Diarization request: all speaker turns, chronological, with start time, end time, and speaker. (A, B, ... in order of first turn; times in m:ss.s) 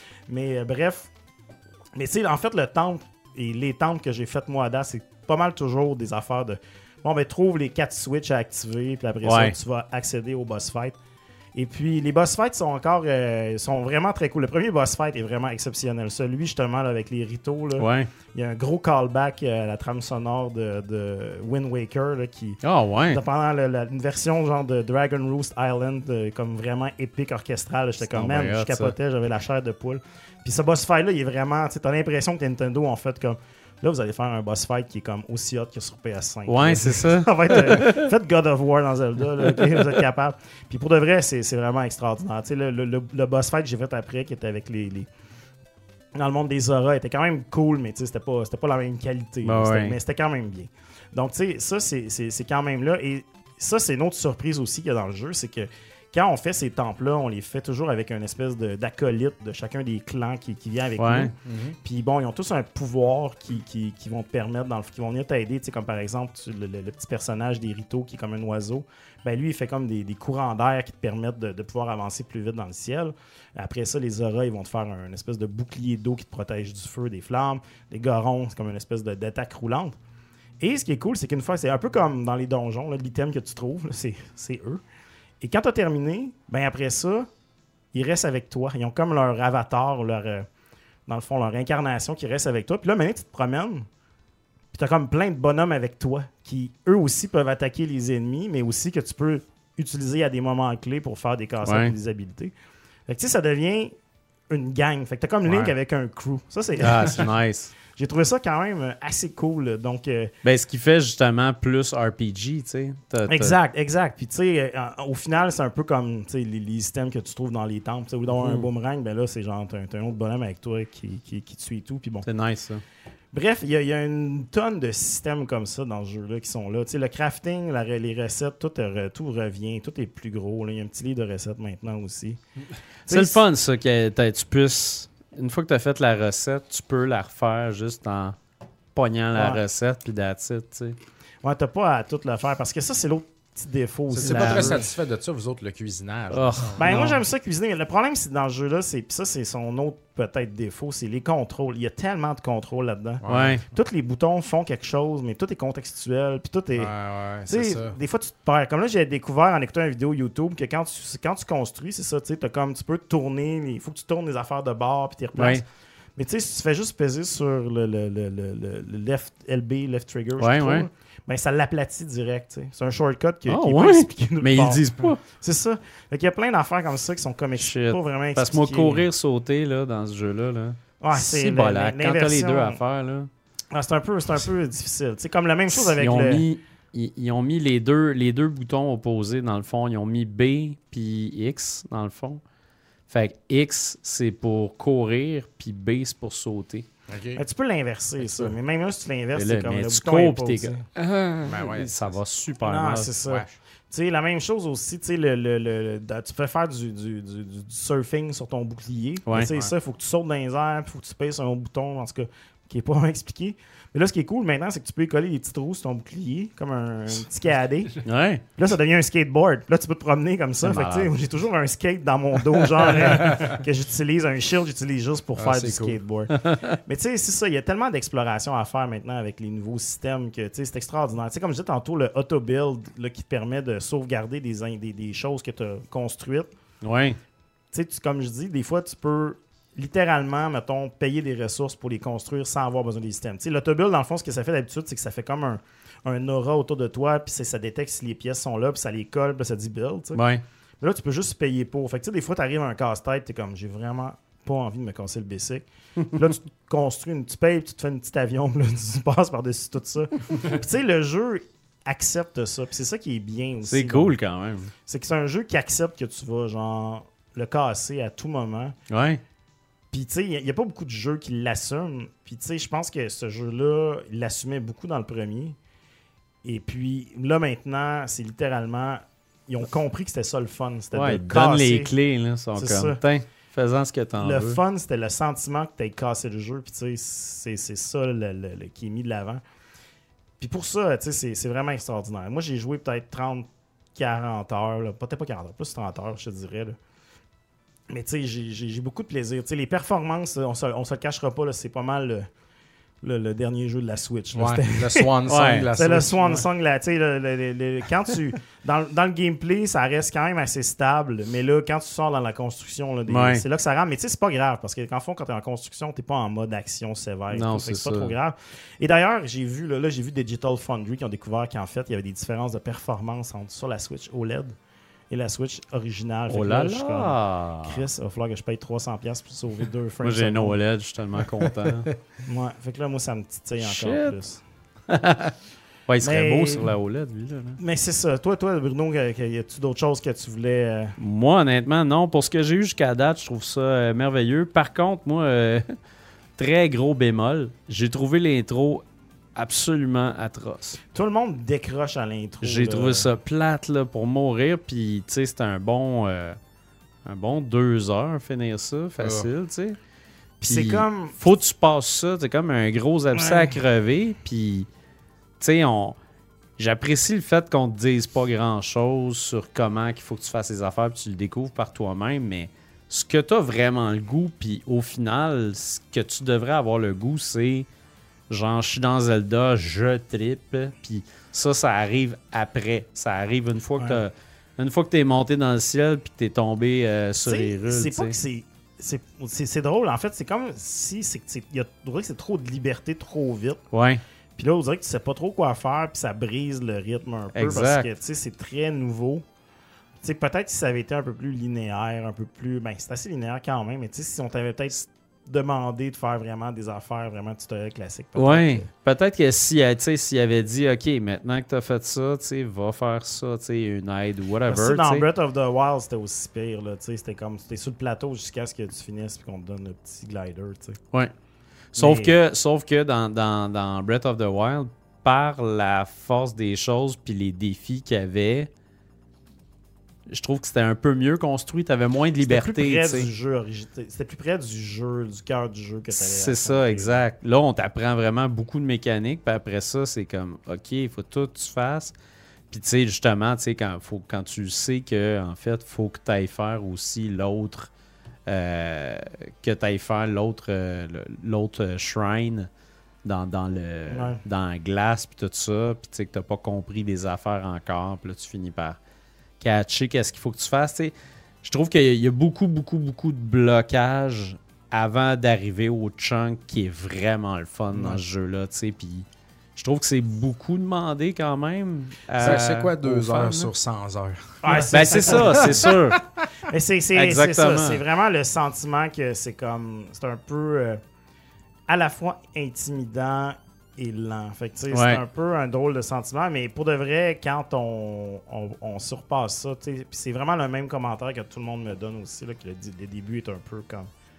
0:00.3-0:01.1 A
0:02.0-0:11.0 A
0:09.2-0:09.6 B
0:11.6-0:45.1 A
0:17.8-0:18.1 B
0:22.6-0:23.2 B
0:28.1-0:28.9 B
0:36.5-0:38.1 B
0:39.5-0:39.8 B
0:46.2-1:01.3 A
0:49.4-0:50.0 B
1:01.0-1:01.3 B
1:01.4-1:01.8 C
1:01.8-1:20.0 A
1:20.6-1:24.8 A
1:25.4-1:27.3 A
1:27.9-1:30.5 A
1:31.1-1:33.9 A
1:34.7-1:42.5 A
1:41.6-1:41.9 B
1:43.1-1:43.9 A
1:44.5-1:47.3 A
1:45.5-1:45.7 B
1:46.8-1:47.7 B
1:47.9-1:50.3 A
1:50.4-1:53.6 B
1:53.3-2:02.3 A
1:58.3-1:58.7 B
2:02.2-2:02.8 B
2:03.3-2:12.4 A
2:13.1-2:13.4 A
2:13.1-2:18.4 B
2:19.0-2:21.0 B
2:19.3-2:19.6 A
2:21.4-2:24.9 A
2:24.1-2:27.0 C
2:24.2-2:24.8 B
2:26.3-2:27.2 B
2:26.8-2:36.9 A
2:33.2-2:33.6 C
2:33.3-2:33.6 B
2:36.8-2:38.0 C
2:37.5-2:45.6 A
2:45.4-2:45.6 B
2:46.2-2:59.1 A
2:50.4-2:50.9 B
2:53.5-2:55.2 B
2:57.6-3:03.3 B
3:01.0-3:02.8 A
3:03.7-3:06.4 A
3:05.7-3:12.4 B
3:13.1-3:16.9 B
3:17.1-3:17.4 C
3:17.4-3:20.8 A
3:19.3-3:23.1 B
3:21.4-3:22.2 C
3:22.6-3:38.0 A
3:29.3-3:29.5 B
3:38.0-3:38.4 B
3:38.6-3:56.5 A
3:40.6-3:41.1 B
3:45.4-3:46.0 C
3:46.3-3:46.8 B
3:56.8-3:57.2 B
3:57.7-4:10.2 A
4:10.2-4:10.4 B
4:10.8-4:24.1 A
4:23.7-4:24.7 B
4:24.9-4:28.8 A
4:28.9-4:29.2 B
4:29.9-4:35.6 A
4:36.4-4:41.9 A
4:40.9-4:44.6 B
4:42.6-4:43.0 A
4:44.2-4:49.4 A
4:50.4-4:56.8 A
4:57.9-5:02.3 A
5:03.0-5:05.1 A
5:04.4-5:06.5 C
5:05.3-5:05.7 B
5:05.8-5:24.6 A
5:13.1-5:13.4 B
5:17.3-5:18.2 B
5:25.1-5:30.6 A
5:26.3-5:27.8 B
5:30.0-5:31.9 B
5:32.2-5:34.4 A
5:33.6-5:34.2 B
5:34.9-5:35.3 B
5:35.9-5:37.6 B
5:36.0-5:36.8 A
5:37.6-5:41.0 A
5:41.0-5:45.7 B
5:46.4-5:48.8 B
5:49.4-5:50.8 B
5:50.9-5:53.1 A
5:52.4-5:56.4 B
5:57.0-5:59.8 B
5:59.0-5:59.3 C
6:00.4-6:01.2 A
6:00.4-6:04.7 B
6:03.2-6:03.6 A
6:05.4-6:06.0 B
6:06.6-6:17.7 B
6:18.3-6:28.2 B
6:27.2-6:33.6 A
6:33.7-6:34.0 B
6:34.4-6:39.2 A
6:37.4-6:37.9 B
6:40.0-6:48.7 A
6:48.2-6:55.1 B
6:54.5-7:00.8 A
7:01.7-7:08.5 B
7:01.8-7:02.2 A
7:10.1-7:13.1 B
7:12.2-7:17.0 A
7:15.9-7:21.9 B
7:22.5-7:27.7 B
7:28.3-7:32.5 B
7:33.0-7:38.8 B
7:33.9-7:34.2 A
7:39.4-7:53.5 B
7:52.2-7:56.2 C
7:54.4-7:55.7 A
7:54.7-7:56.0 B
7:56.5-8:00.8 A
7:57.0-7:57.8 B
8:01.7-8:13.9 A
8:04.7-8:05.0 B